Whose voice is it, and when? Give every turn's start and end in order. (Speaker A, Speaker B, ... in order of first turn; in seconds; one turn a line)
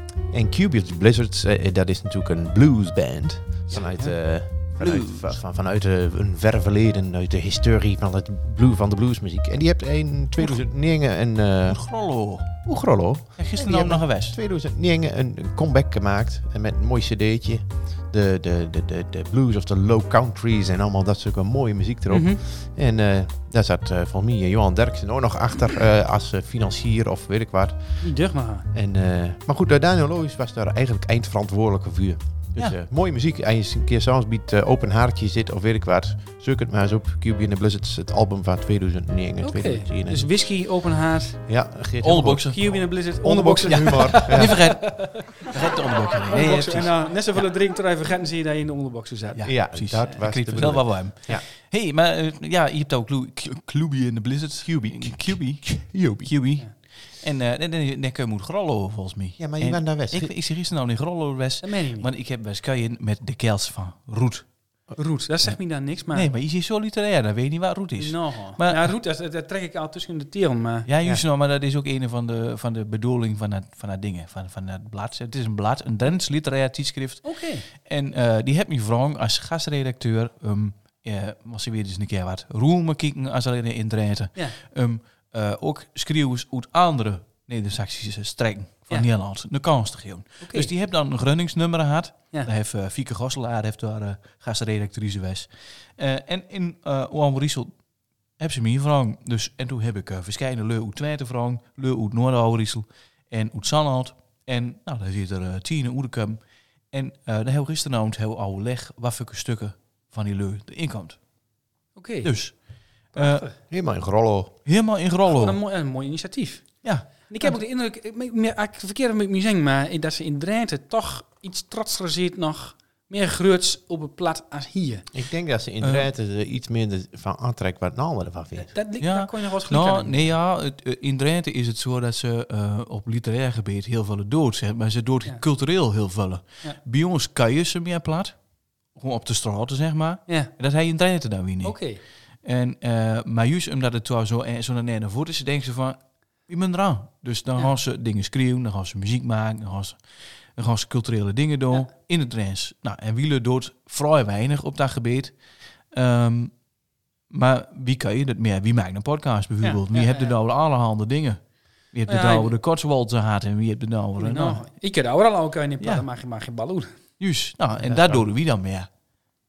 Speaker A: 0.3-11.8
Speaker B: 4.8-5.4
Speaker B: 11.7-12.6
Speaker A: 12.6-28.1
Speaker B: 13.4-14.4
Speaker C: 22.1-22.4
Speaker C: 28.0-28.7
Speaker A: 28.7-40.3
Speaker C: 39.4-41.4
Speaker A: 41.5-44.6
Speaker B: 42.0-42.9
Speaker C: 42.5-45.5
Speaker B: 43.7-47.4
Speaker C: 46.3-49.5
Speaker B: 49.4-64.5
Speaker A: 49.5-51.4
Speaker A: 54.6-56.0
Speaker A: 59.4-60.3
Speaker C: 61.6-62.1
Speaker C: 65.0-66.3
Speaker B: 66.1-68.9
Speaker C: 68.0-70.9
Speaker B: 70.9-97.7
Speaker C: 77.2-77.7
Speaker C: 90.4-90.7
Speaker B: 98.4-106.4
Speaker B: 106.9-111.2
Speaker C: 112.0-112.3
Speaker B: 112.2-112.6
Speaker B: 113.1-113.4
Speaker C: 113.2-113.5
Speaker A: 113.7-114.6
Speaker B: 114.7-115.6
Speaker C: 115.3-125.1
Speaker B: 116.8-117.6
Speaker A: 125.1-128.7
Speaker B: 125.8-126.1
Speaker C: 128.6-130.2
Speaker B: 129.0-138.4
Speaker B: 138.9-141.8
Speaker C: 141.6-142.0
Speaker B: 142.4-150.0
Speaker B: 150.5-155.3
Speaker B: 155.9-156.5
Speaker B: 157.3-161.4
Speaker C: 159.6-160.3
Speaker B: 161.9-164.6
Speaker C: 162.1-162.5
Speaker C: 164.2-166.9
Speaker B: 167.2-168.9
Speaker A: 167.8-168.3